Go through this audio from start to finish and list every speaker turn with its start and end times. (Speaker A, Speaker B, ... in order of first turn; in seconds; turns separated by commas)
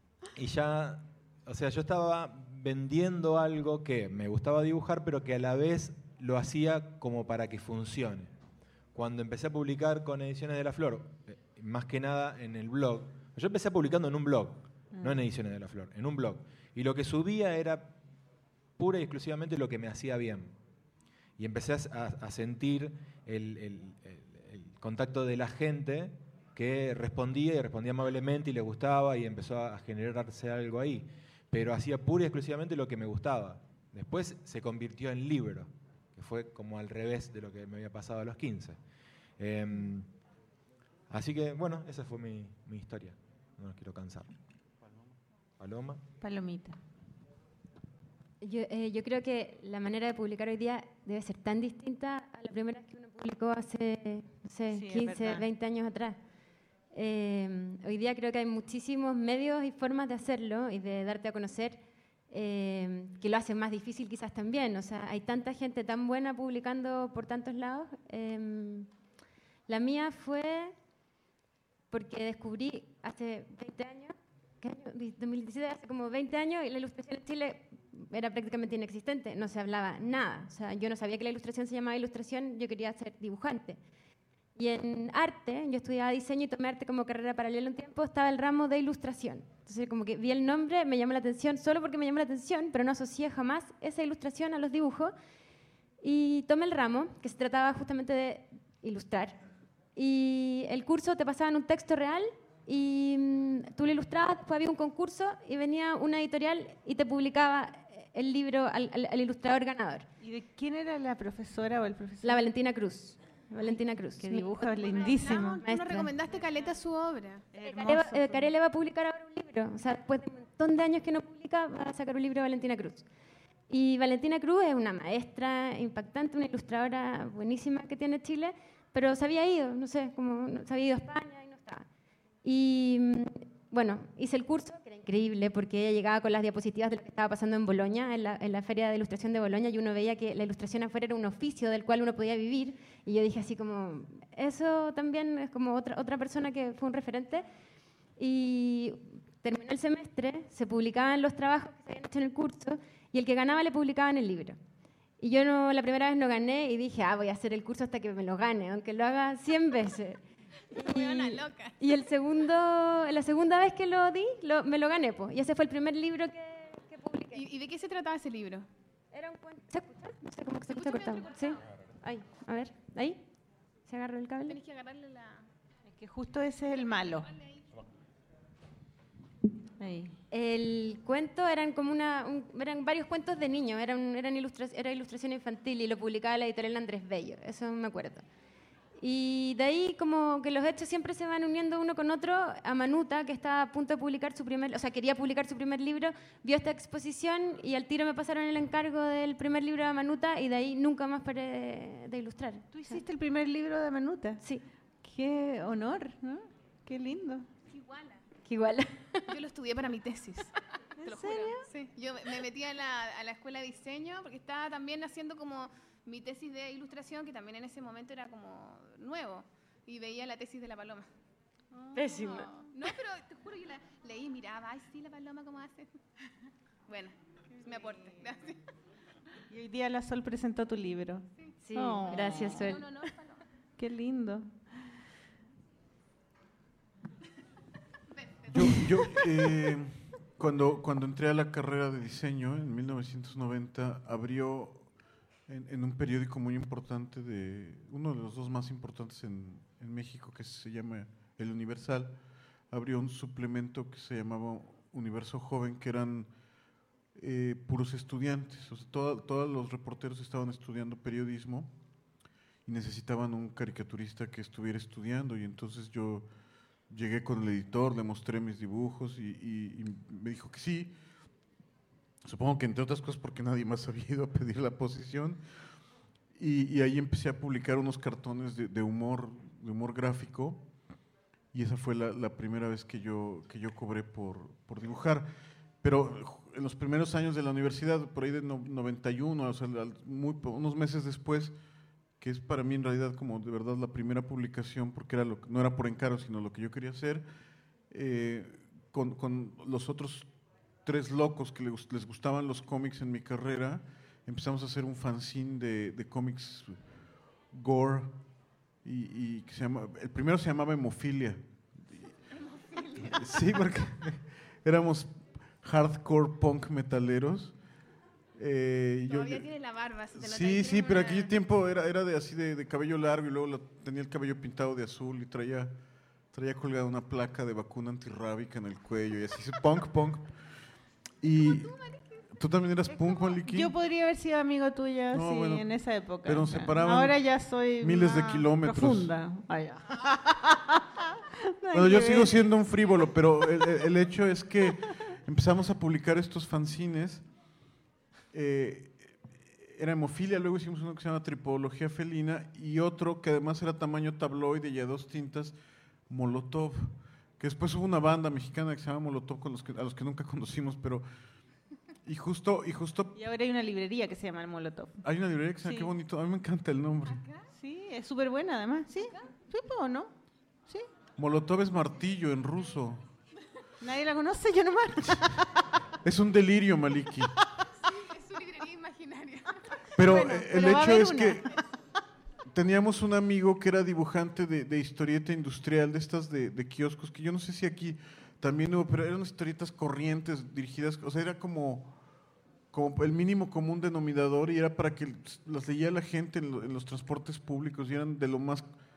Speaker A: 0.3-8.3, Speaker A: 8.9-17.9, Speaker B: 14.9-15.2, Speaker A: 18.8-20.5, Speaker A: 21.4-38.8, Speaker A: 39.4-40.1, Speaker A: 41.1-44.3, Speaker A: 45.6-46.0, Speaker B: 46.2-46.8, Speaker C: 48.4-56.2, Speaker B: 54.7-55.4, Speaker C: 56.9-68.9, Speaker C: 69.7-70.7, Speaker C: 71.9-83.8, Speaker C: 84.5-95.1, Speaker C: 96.0-99.4, Speaker C: 100.0-110.1, Speaker B: 110.2-112.4, Speaker C: 112.2-116.1, Speaker B: 114.2-116.8, Speaker D: 114.8-117.4, Speaker B: 117.5-118.5, Speaker C: 117.6-123.0, Speaker C: 123.7-131.9, Speaker C: 132.4-147.4, Speaker C: 148.2-154.6, Speaker C: 155.2-160.2, Speaker C: 160.7-167.4, Speaker D: 160.7-161.8, Speaker D: 167.3-168.7, Speaker C: 169.1-173.2, Speaker D: 170.7-171.6, Speaker C: 173.8-174.6, Speaker D: 174.5-175.4, Speaker B: 175.8-177.3, Speaker D: 177.2-177.6, Speaker B: 179.8-180.1, Speaker C: 180.3-188.2, Speaker C: 189.0-203.0, Speaker B: 202.7-204.4, Speaker B: 205.0-207.5, Speaker D: 207.7-208.2, Speaker C: 208.4-209.3, Speaker D: 209.3-210.5, Speaker B: 211.0-211.6, Speaker D: 211.0-221.1, Speaker B: 221.7-222.4, Speaker C: 221.9-222.5, Speaker D: 222.2-225.9, Speaker D: 226.9-228.6, Speaker B: 227.6-228.4, Speaker B: 229.5-232.7, Speaker C: 231.6-232.9, Speaker D: 232.1-233.4, Speaker B: 233.8-234.9, Speaker D: 238.1-238.7, Speaker E: 238.5-244.9, Speaker E: 245.5-252.2, Speaker E: 252.7-256.3, Speaker E: 257.1-261.7, Speaker E: 262.6-266.3, Speaker E: 266.9-270.9, Speaker E: 272.2-275.4, Speaker E: 276.4-280.6, Speaker E: 281.5-285.3, Speaker E: 285.8-291.5, Speaker E: 292.2-297.2, Speaker E: 297.9-300.3, Speaker E: 300.8-306.8, Speaker E: 307.5-308.2, Speaker E: 308.8-311.7, Speaker D: 312.4-313.2, Speaker E: 312.9-317.6, Speaker E: 318.4-319.5, Speaker D: 319.1-321.3, Speaker E: 320.1-325.7, Speaker E: 326.3-330.3, Speaker E: 331.2-331.8, Speaker D: 331.5-332.0, Speaker E: 332.3-333.7, Speaker D: 333.0-333.3, Speaker B: 333.5-342.4, Speaker E: 335.1-335.6, Speaker E: 336.2-337.2, Speaker E: 337.8-339.1, Speaker E: 341.7-347.2, Speaker E: 348.3-355.6, Speaker E: 356.1-361.0, Speaker E: 362.1-363.1, Speaker B: 363.1-365.0, Speaker E: 365.0-367.2, Speaker B: 365.6-365.9, Speaker D: 367.1-367.5, Speaker B: 367.5-370.1, Speaker E: 371.2-373.0, Speaker B: 373.8-375.6, Speaker E: 376.0-377.4, Speaker D: 377.8-379.9, Speaker E: 379.9-381.5, Speaker B: 380.0-381.5, Speaker E: 382.5-392.0, Speaker E: 392.7-398.7